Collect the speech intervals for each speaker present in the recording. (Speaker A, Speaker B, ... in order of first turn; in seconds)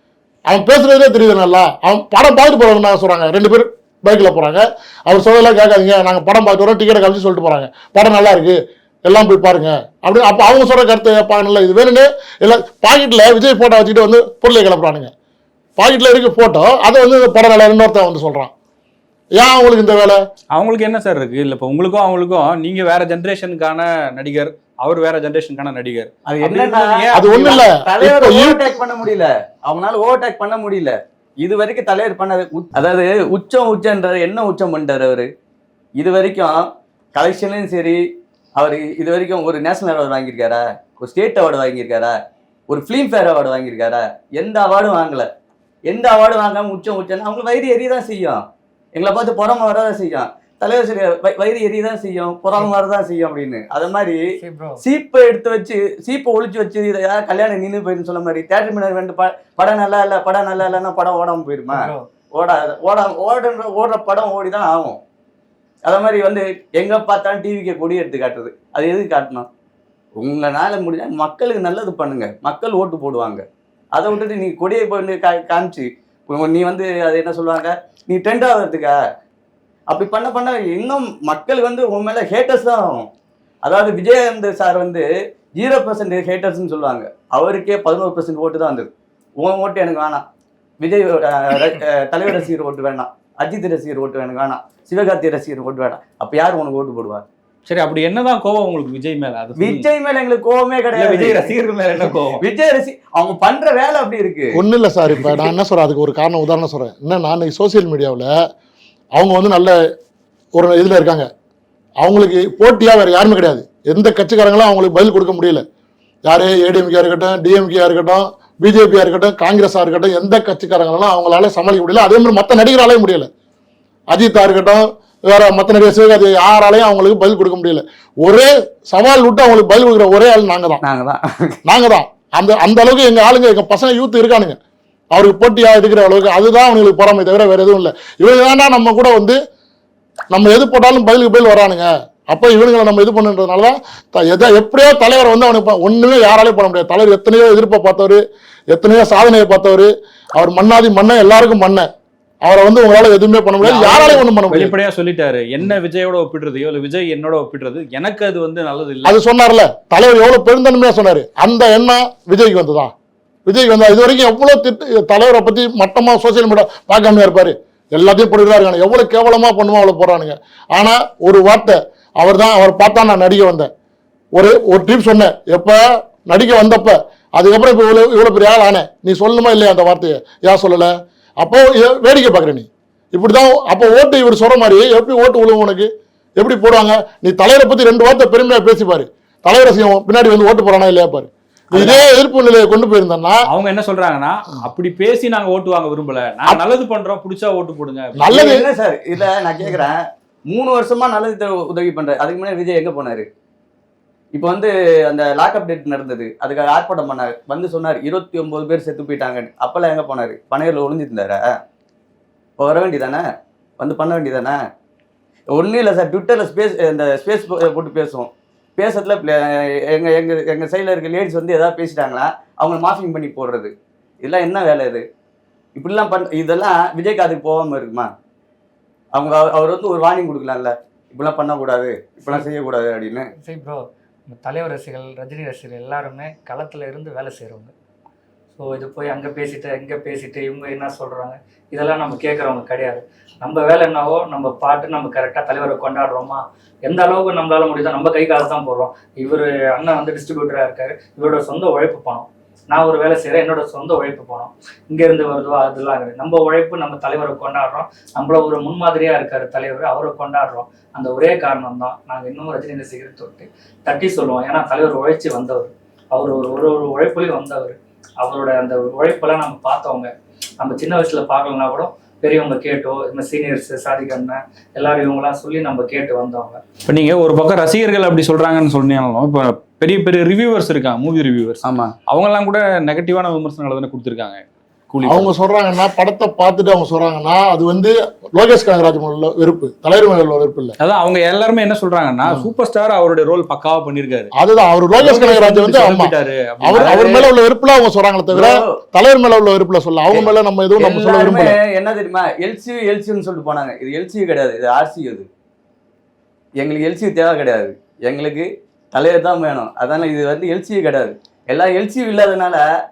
Speaker A: 0.5-15.1, 15.8-18.5, 19.4-20.2, 27.1-28.7, 104.5-108.3, 109.2-109.8, 110.6-111.3, 112.0-115.7, 116.3-123.3, 124.1-130.8, 131.7-134.6, 135.1-139.4, 140.3-148.2, 148.7-151.9, 152.4-154.7, 159.0-162.9, 163.5-173.7, 174.3-193.4, 198.2-198.7, 285.1-290.8, 294.4-301.6
Speaker B: 20.5-27.6, 97.7-99.9, 101.0-102.4, 153.6-159.2, 193.5-198.3, 276.9-285.3, 290.8-294.3, 295.0-297.0
Speaker C: 26.3-35.3, 36.0-38.0, 38.6-42.2, 42.7-45.3, 45.9-48.4, 49.0-54.2, 54.8-65.0, 65.9-69.5, 70.2-79.0, 79.9-83.1, 83.6-90.2, 90.8-97.3, 99.6-104.6, 105.2-105.5, 130.8-131.6, 191.8-192.1, 198.3-203.3, 204.3-211.6, 212.6-213.3, 213.8-214.6, 215.5-223.7, 224.2-225.1, 225.8-228.1, 229.1-233.3, 281.6-281.9, 296.7-297.3, 298.3-298.8, 300.1-305.3, 306.6-312.6
Speaker D: 54.4-54.8, 61.7-62.0, 233.4-237.7, 238.6-276.6